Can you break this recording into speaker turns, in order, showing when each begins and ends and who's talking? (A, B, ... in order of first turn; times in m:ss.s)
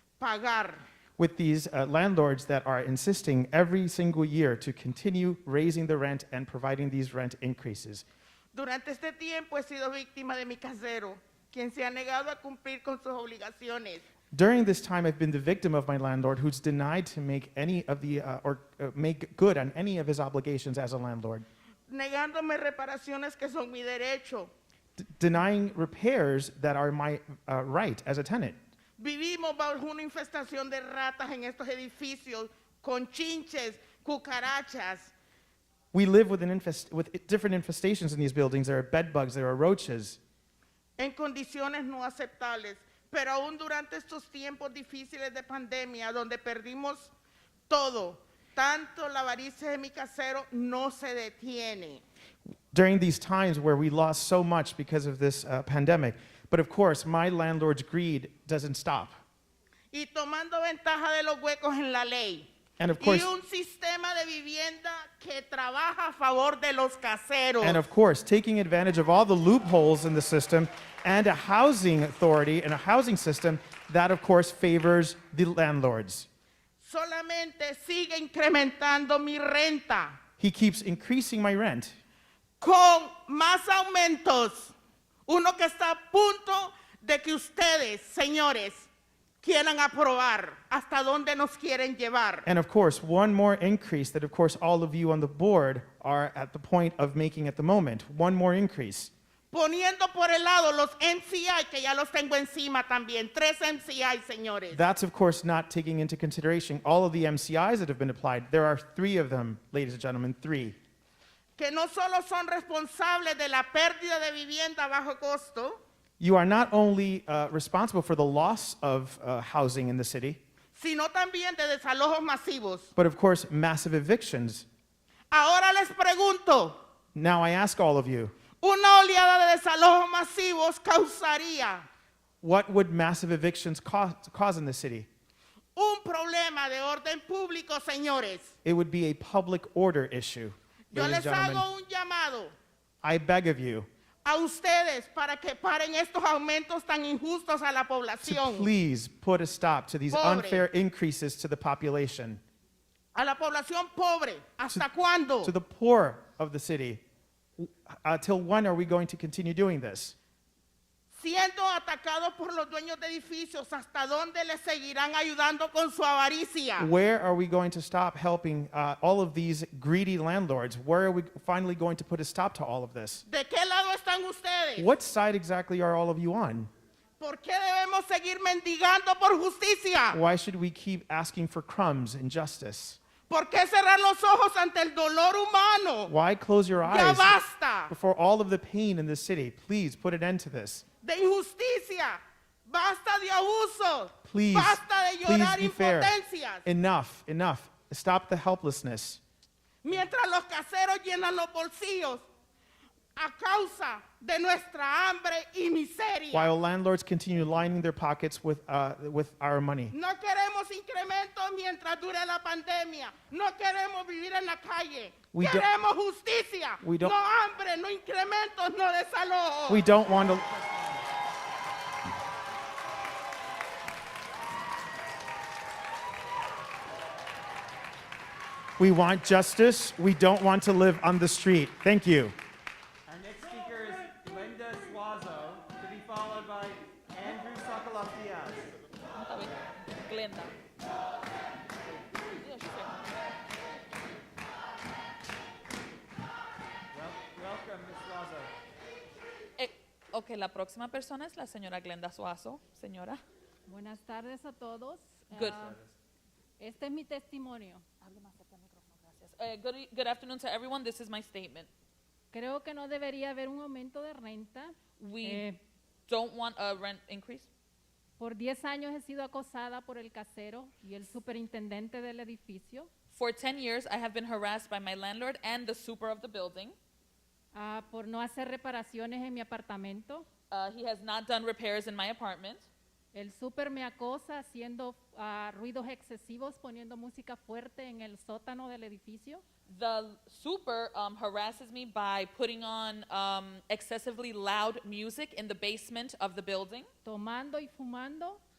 0:00.2-0:00.8 A
0:01.2-0:08.0 B
0:08.5-0:14.0 A
0:14.3-0:21.4 B
0:21.9-0:24.5 A
0:25.0-0:28.6 B
0:29.0-0:35.1 A
0:35.9-0:40.2 B
0:41.0-0:47.1 A
0:47.7-0:52.0 A
0:52.7-0:59.1 B
0:59.9-1:07.8 A
1:02.8-1:03.3 B
1:07.6-1:16.3 B
1:16.8-1:20.2 A
1:20.4-1:21.9 B
1:22.6-1:24.7 A
1:25.3-1:28.9 A
1:29.4-1:32.5 A
1:32.4-1:39.1 B
1:39.5-1:44.8 A
1:44.7-1:50.8 B
1:51.6-1:55.8 A
1:56.2-2:00.4 B
2:00.7-2:02.9 A
2:03.0-2:04.6 B
2:05.3-2:06.8 A
2:07.1-2:08.3 B
2:08.6-2:11.8 A
2:12.4-2:15.1 B
2:15.8-2:18.5 A
2:18.6-2:21.6 B
2:20.9-2:22.5 A
2:23.0-2:23.9 B
2:24.2-2:28.7 A
2:28.2-2:32.4 B
2:30.1-2:30.7 A
2:33.1-2:35.5 A
2:35.4-2:37.0 B
2:37.6-2:40.1 B
2:41.1-2:46.9 A
2:46.8-2:53.2 B
2:53.2-2:54.9 A
2:54.8-2:56.7 B
2:57.2-3:00.2 A
3:00.1-3:03.0 B
3:03.3-3:06.1 A
3:06.1-3:07.4 B
3:06.8-3:07.9 A
3:07.9-3:10.8 B
3:11.0-3:16.6 A
3:14.2-3:16.1 B
3:16.6-3:19.2 B
3:19.8-3:22.2 A
3:23.2-3:26.5 A
3:26.3-3:29.9 B
3:29.9-3:39.9 A
3:35.3-3:35.7 B
3:36.8-3:37.1 B
3:39.7-3:40.5 B
3:40.3-3:40.9 C
3:48.8-3:52.3 B
3:53.1-3:58.7 C
3:59.1-4:00.5 D
4:02.3-4:03.0 D
4:06.9-4:08.5 C
4:09.6-4:13.2 D
4:13.7-4:15.7 E
4:15.3-4:15.7 D
4:15.3-4:15.9 C
4:16.6-4:17.8 E
4:18.0-4:21.7 D
4:22.3-4:25.6 E
4:25.0-4:25.5 D
4:26.1-4:27.5 D
4:28.2-4:32.9 E
4:33.1-4:36.7 D
4:37.6-4:40.2 E
4:40.5-4:42.7 D
4:43.1-4:49.4 E
4:49.7-4:56.9 D
4:57.0-4:58.4 E